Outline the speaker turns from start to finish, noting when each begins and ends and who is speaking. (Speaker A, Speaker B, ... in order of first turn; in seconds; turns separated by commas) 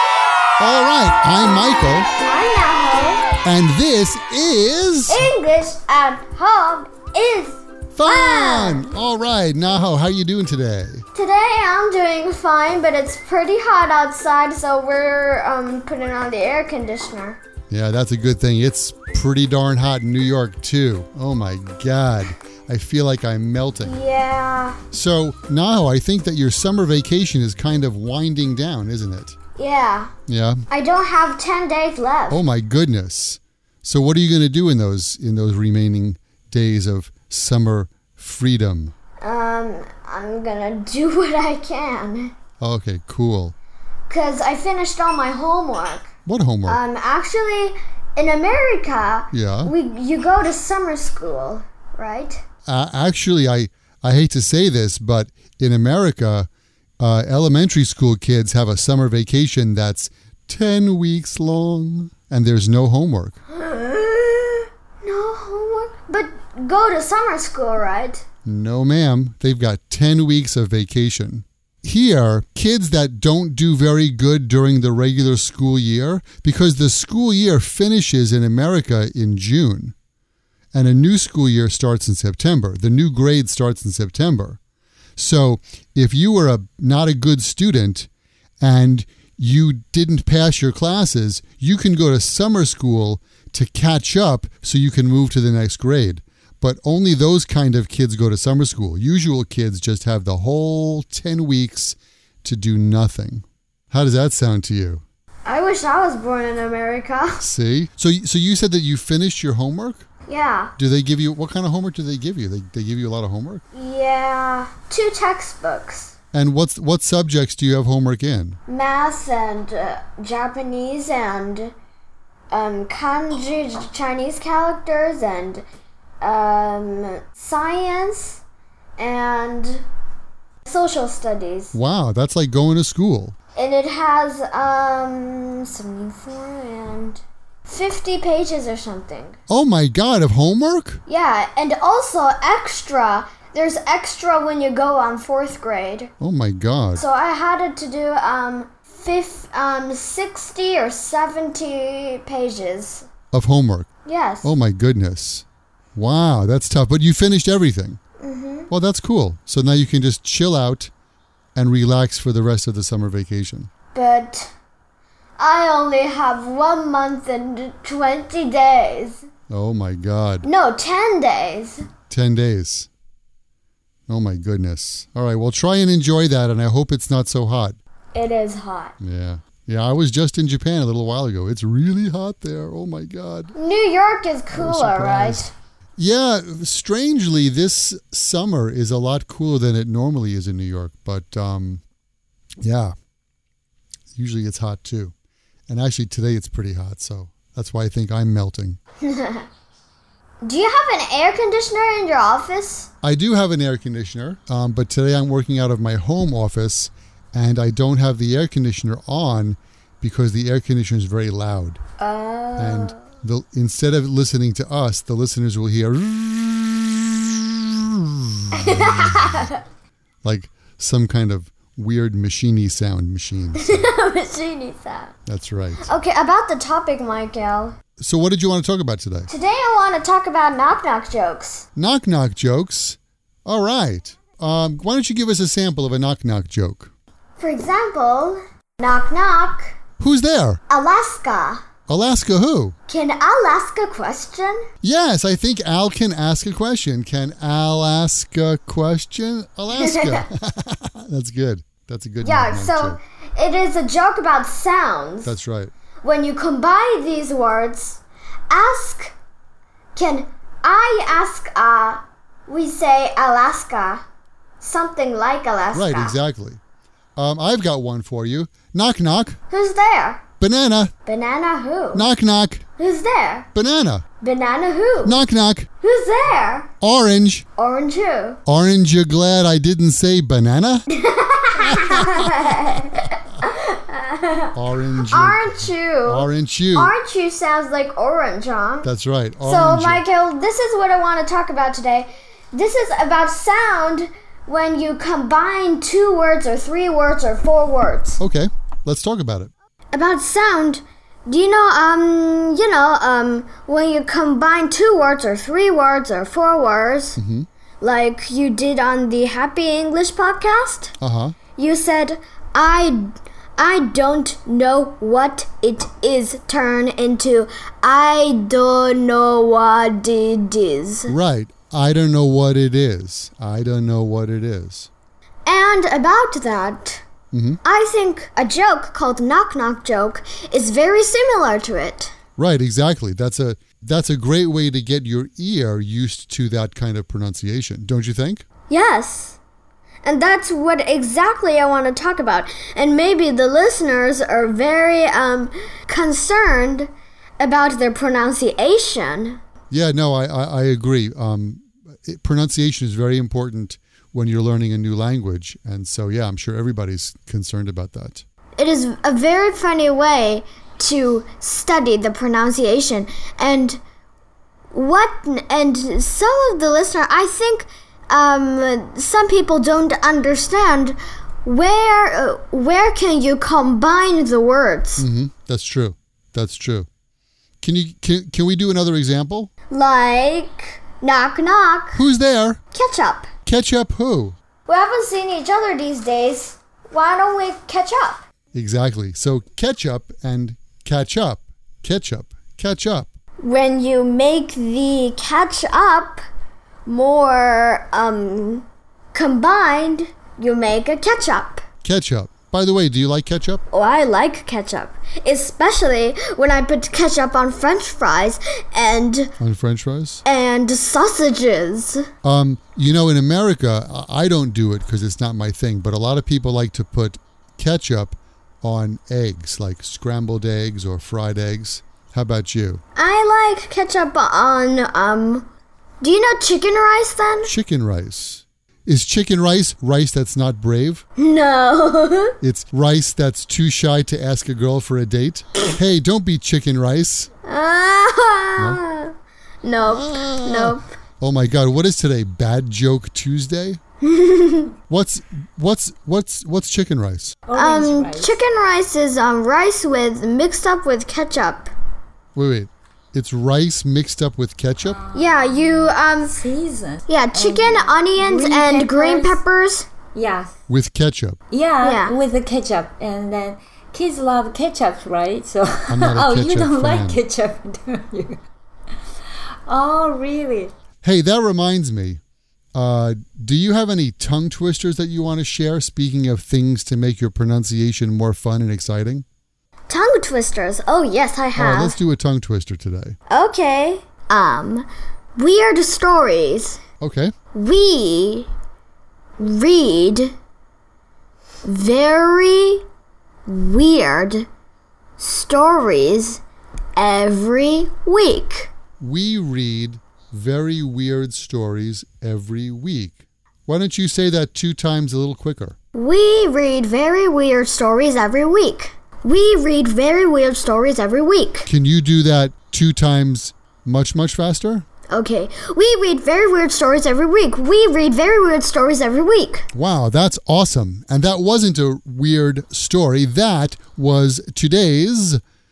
Speaker A: 0.6-2.1, Speaker B: 2.2-3.2, Speaker A: 3.4-5.2, Speaker B: 5.1-8.9, Speaker A: 7.9-11.0, Speaker B: 11.1-17.4, Speaker A: 17.7-23.9, Speaker B: 23.8-24.8, Speaker A: 24.9-29.4, Speaker B: 29.6-30.1, Speaker A: 30.3-30.6, Speaker B: 30.7-32.4, Speaker A: 32.3-38.9, Speaker B: 39.2-42.3, Speaker A: 42.6-43.5, Speaker B: 44.1-46.1, Speaker A: 46.2-46.8, Speaker B: 46.6-52.4, Speaker A: 49.3-49.7, Speaker A: 52.6-56.5, Speaker A: 57.0-63.4, Speaker B: 63.5-68.2, Speaker A: 68.5-79.9, Speaker A: 80.7-84.6, Speaker A: 85.2-88.1, Speaker A: 88.6-105.0, Speaker B: 105.5-107.4, Speaker A: 107.4-110.1, Speaker B: 110.3-110.7, Speaker A: 110.8-113.6, Speaker B: 113.7-116.1, Speaker A: 116.3-118.6, Speaker B: 118.7-121.7, Speaker B: 122.5-125.6, Speaker B: 126.2-128.4, Speaker B: 129.0-129.8, Speaker B: 130.6-131.7, Speaker A: 131.7-133.3, Speaker B: 133.6-139.3, Speaker A: 139.5-141.0, Speaker B: 141.1-146.1, Speaker A: 146.2-147.0, Speaker B: 146.9-153.1, Speaker A: 153.3-153.9, Speaker B: 154.1-154.5, Speaker A: 154.4-158.0, Speaker B: 158.2-158.7, Speaker A: 158.7-160.9, Speaker A: 161.5-163.7, Speaker B: 163.9-164.5, Speaker B: 165.4-169.2, Speaker A: 169.5-170.5, Speaker B: 170.4-171.8, Speaker A: 172.1-172.9, Speaker A: 174.1-177.8, Speaker B: 178.1-178.9, Speaker A: 179.0-183.5, Speaker B: 183.5-185.5, Speaker A: 184.5-185.4, Speaker A: 186.0-191.8, Speaker A: 192.6-192.9, Speaker A: 194.1-195.1, Speaker A: 195.7-198.8, Speaker B: 199.0-199.4, Speaker B: 200.4-202.9, Speaker A: 203.0-211.8, Speaker B: 212.0-213.0, Speaker A: 212.6-219.4, Speaker B: 218.5-219.6, Speaker A: 220.2-223.9, Speaker B: 223.5-225.1, Speaker A: 225.3-225.9, Speaker B: 225.8-227.8, Speaker A: 228.0-229.3, Speaker B: 229.3-231.7, Speaker A: 231.8-236.9, Speaker B: 237.4-239.7, Speaker A: 240.0-240.6, Speaker B: 240.7-241.6, Speaker A: 241.9-242.8, Speaker B: 242.9-244.6, Speaker A: 244.8-253.0, Speaker B: 249.7-250.3, Speaker B: 252.2-255.3, Speaker A: 255.2-255.7, Speaker B: 256.0-259.1, Speaker B: 259.9-264.0, Speaker B: 264.6-266.2, Speaker A: 265.7-266.6, Speaker A: 267.2-269.4, Speaker B: 269.5-270.2, Speaker A: 270.4-270.9, Speaker B: 271.0-272.1, Speaker A: 271.9-272.6, Speaker B: 272.8-273.5, Speaker A: 273.5-274.0, Speaker B: 274.2-275.2, Speaker A: 275.0-275.7, Speaker B: 275.8-276.7, Speaker A: 276.8-277.4, Speaker B: 277.6-278.4, Speaker A: 278.4-280.9, Speaker B: 280.9-284.5, Speaker A: 281.6-282.7, Speaker A: 284.5-286.9, Speaker B: 285.0-288.9, Speaker A: 288.8-290.0, Speaker B: 289.4-298.2, Speaker A: 298.2-299.5, Speaker B: 299.9-307.2, Speaker A: 307.2-307.5, Speaker B: 307.8-310.9, Speaker A: 311.0-311.4, Speaker B: 311.6-321.1, Speaker A: 321.1-324.9, Speaker B: 325.4-327.0, Speaker A: 327.3-327.6, Speaker B: 327.6-332.1, Speaker A: 332.4-338.4, Speaker B: 338.7-339.4, Speaker B: 340.0-349.4, Speaker A: 349.7-358.2, Speaker B: 358.6-363.8, Speaker B: 364.7-375.1, Speaker A: 375.0-376.9, Speaker A: 377.6-379.5, Speaker B: 379.7-382.0, Speaker A: 381.9-382.6, Speaker B: 382.7-383.3, Speaker A: 383.4-384.4, Speaker B: 384.6-388.2, Speaker A: 388.5-393.1, Speaker B: 393.4-396.2, Speaker B: 396.9-401.6, Speaker A: 401.8-403.6, Speaker B: 403.7-409.3, Speaker A: 409.4-410.2, Speaker B: 410.2-412.1, Speaker A: 412.2-422.8, Speaker B: 422.9-425.5, Speaker B: 426.0-427.5, Speaker A: 427.4-431.0, Speaker B: 431.2-432.3, Speaker A: 432.4-437.3, Speaker B: 437.4-439.1, Speaker B: 439.6-440.9, Speaker A: 439.8-443.8, Speaker B: 444.0-444.7, Speaker A: 444.9-447.4, Speaker C: 447.4-448.4, Speaker B: 447.5-451.7, Speaker A: 452.3-455.0, Speaker C: 455.1-455.7, Speaker B: 455.1-456.4, Speaker C: 456.3-459.4, Speaker B: 457.1-459.9, Speaker C: 460.1-460.5, Speaker A: 460.7-461.4, Speaker C: 461.5-468.4, Speaker B: 461.8-462.2, Speaker A: 465.9-467.2, Speaker C: 469.7-470.7, Speaker A: 471.0-472.2, Speaker A: 472.7-479.2, Speaker B: 479.9-482.0, Speaker A: 481.6-483.1, Speaker B: 483.3-486.8, Speaker A: 487.0-487.3, Speaker B: 487.5-488.5, Speaker B: 489.4-490.3, Speaker B: 491.6-492.8, Speaker B: 493.5-494.5, Speaker B: 495.2-496.4, Speaker B: 496.9-498.7, Speaker A: 499.0-505.7, Speaker B: 505.9-511.7, Speaker A: 511.6-514.8, Speaker B: 515.1-519.7, Speaker A: 519.7-525.4